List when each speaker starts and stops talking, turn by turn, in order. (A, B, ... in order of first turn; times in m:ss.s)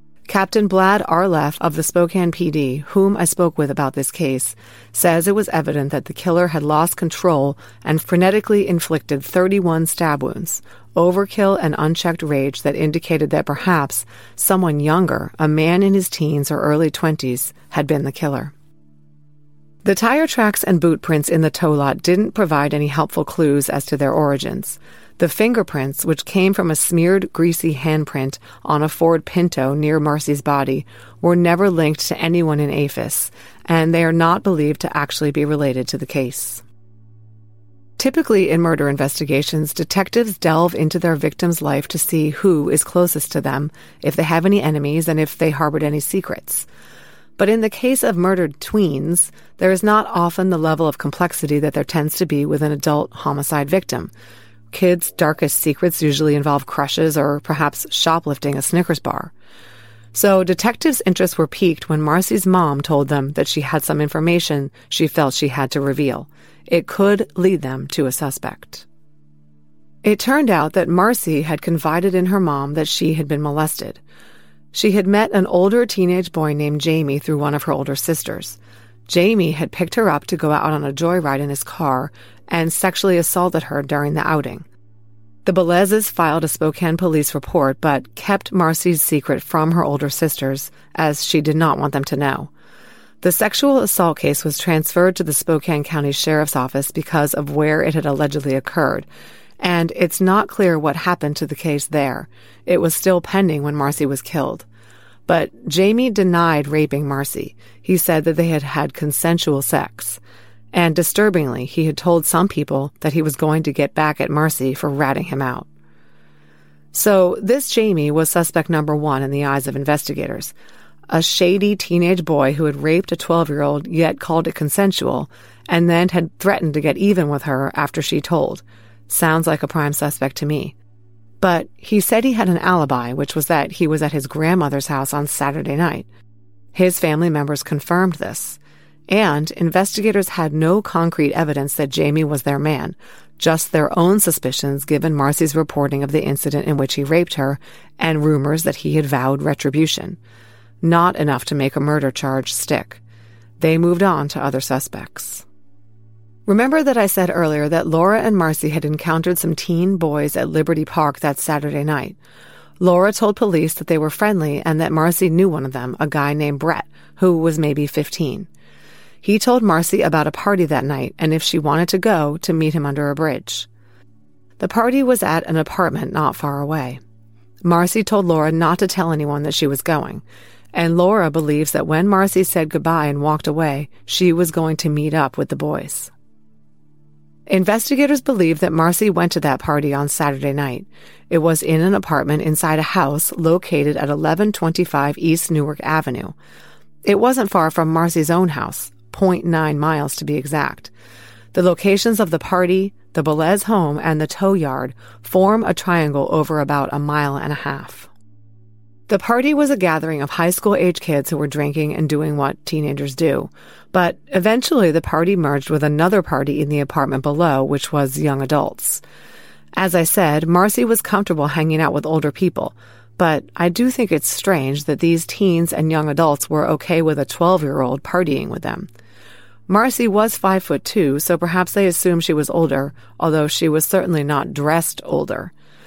0:00.3-0:18.5 A
0:19.8-0:36.6 A
0:38.0-0:46.7 A
0:47.4-0:54.1 A
0:54.7-0:59.3 A
1:00.1-1:08.8 A
1:10.0-1:14.0 A
1:14.7-1:24.7 A
1:25.4-1:32.5 A
1:33.2-1:39.1 A
1:39.6-1:44.7 A
1:45.3-1:50.2 A
1:50.7-1:55.7 A
1:56.9-2:00.5 A
2:01.1-2:10.7 A
2:11.4-2:16.1 A
2:16.7-2:30.2 A
2:30.8-2:33.0 A
2:33.6-2:35.4 A
2:36.4-2:42.2 A
2:42.8-2:48.5 A
2:49.2-2:53.7 A
2:54.6-2:57.0 A
2:57.6-3:06.1 A
3:07.5-3:16.3 A
3:17.0-3:20.9 A
3:21.5-3:28.1 A
3:29.1-3:39.0 A
3:39.8-3:48.9 A
3:49.7-3:55.5 A